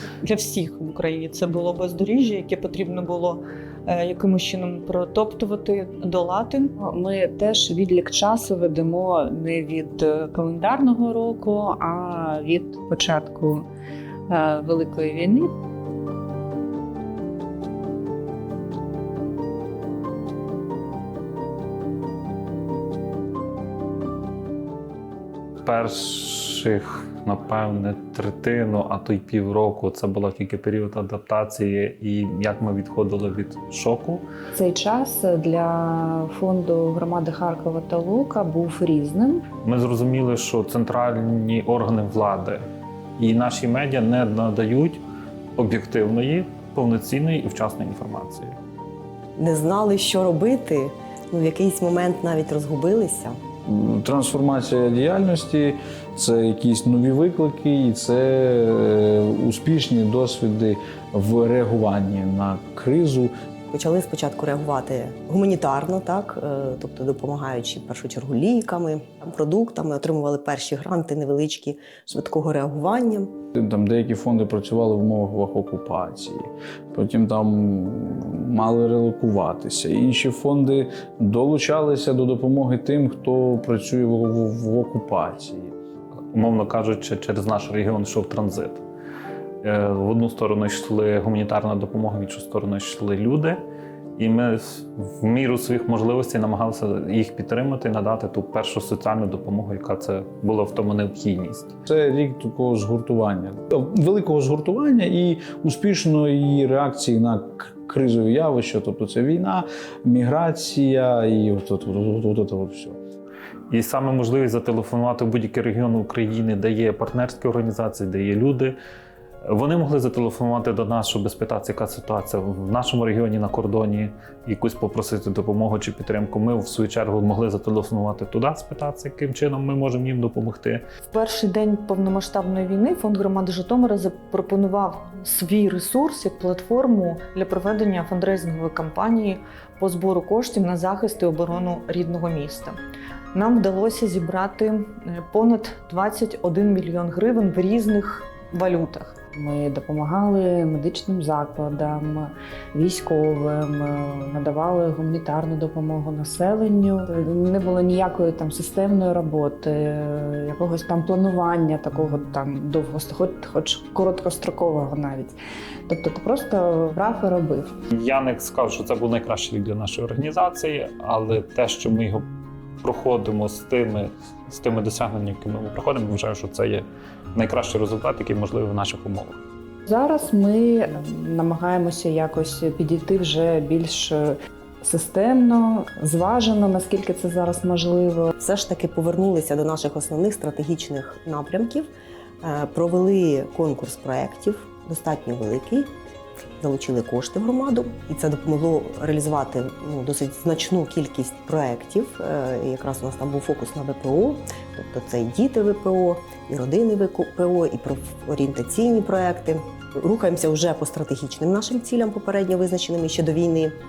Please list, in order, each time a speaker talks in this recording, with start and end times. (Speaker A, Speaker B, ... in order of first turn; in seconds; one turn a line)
Speaker A: 0.2-6.7
Speaker B: 6.8-13.7
Speaker B: 14.3-15.5
Speaker C: 25.6-34.2
Speaker B: 34.5-39.4
Speaker C: 39.6-42.6
Speaker C: 43.2-45.0
Speaker C: 45.6-48.6
Speaker D: 49.4-53.4
Speaker E: 53.7-63.3
Speaker D: 63.7-73.3
Speaker E: 73.5-85.8
Speaker C: 86.3-88.8
Speaker C: 89.6-93.6
Speaker C: 94.2-101.8
Speaker E: 101.9-113.0
Speaker C: 113.7-118.8
Speaker C: 119.5-130.8
Speaker A: 131.1-142.8
Speaker A: 143.3-149.2
Speaker B: 149.3-167.7
Speaker C: 167.9-172.2
Speaker C: 172.8-179.4
Speaker B: 179.9-188.3
Speaker D: 188.4-191.9
Speaker D: 192.4-195.9
Speaker D: 196.6-213.8